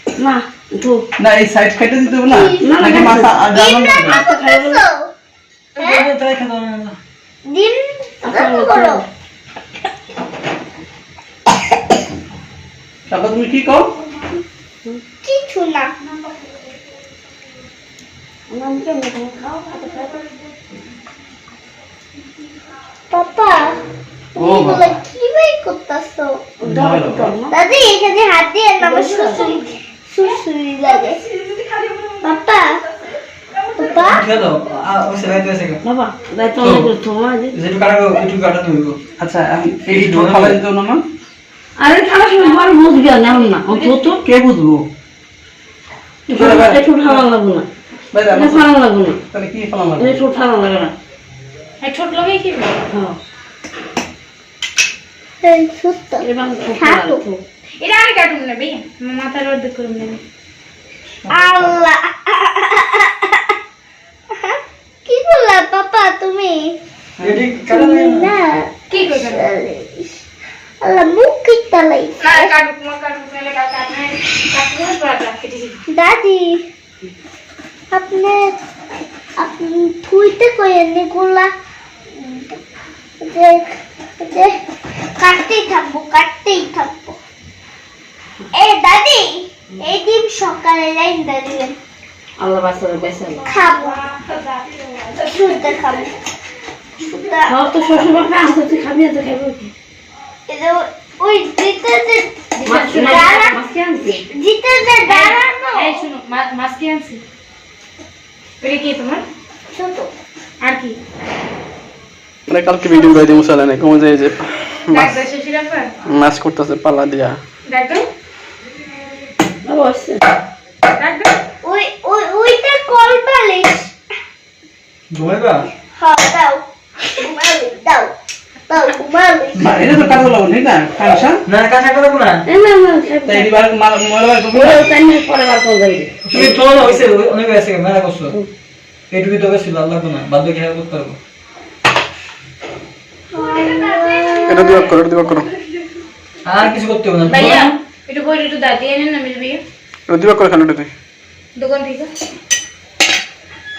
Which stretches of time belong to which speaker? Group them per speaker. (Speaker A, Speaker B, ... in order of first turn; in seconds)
Speaker A: 0.2-1.1, 2.6-3.3, 4.0-4.8, 8.2-9.0, 18.5-20.3, 26.6-27.6, 28.8-29.6, 35.8-37.6, 41.8-44.2, 46.3-47.7, 48.3-49.2, 50.0-50.9, 52.9-53.2, 56.2-57.4, 92.4-93.5, 97.5-99.7, 102.6-104.2, 119.6-120.2, 132.4-133.6, 134.5-136.5
Speaker B: 1.2-4.2, 13.1-13.9, 24.4-24.9, 26.7-27.3, 39.2-41.0, 44.3-44.8, 46.5-46.8, 48.1-48.6, 49.3-50.2, 129.6-131.4, 133.3-134.8
Speaker C: 2.2-5.1, 5.8-6.1, 7.5-9.0, 15.2-15.9, 23.1-23.8, 24.3-26.5, 27.5-31.2, 32.2-32.8, 33.7-34.2, 55.4-56.2, 56.8-57.2, 61.3-63.5, 64.3-66.8, 67.7-70.2, 70.8-72.5, 75.9-76.6, 77.9-78.5, 79.4-81.5, 82.1-82.6, 83.2-84.5, 85.2-87.2, 88.5-91.8, 93.4-94.0, 95.2-96.1, 97.0-97.5, 100.5-103.6, 104.3-106.0, 109.7-110.1, 112.8-113.4, 121.6-123.9, 125.9-128.1, 128.7-129.6, 143.3-144.9
Speaker D: 5.8-7.0, 34.0-35.8, 37.5-39.0, 39.9-40.6, 67.2-68.3, 125.1-125.7, 129.6-130.3, 131.4-132.4, 136.2-138.3, 139.1-141.2, 146.4-147.7
Speaker E: 31.2-32.2, 42.1-44.1, 51.8-52.8, 57.8-60.2, 68.9-69.5, 72.2-75.8, 93.6-95.4, 102.5-103.3, 105.0-107.2, 108.6-109.2, 110.6-111.0, 114.9-115.9, 117.7-118.0, 120.9-121.3, 143.6-144.8, 147.3-149.6, 151.6-152.1
Speaker F: 112.5-115.1, 116.0-117.4, 144.4-145.5, 150.1-150.9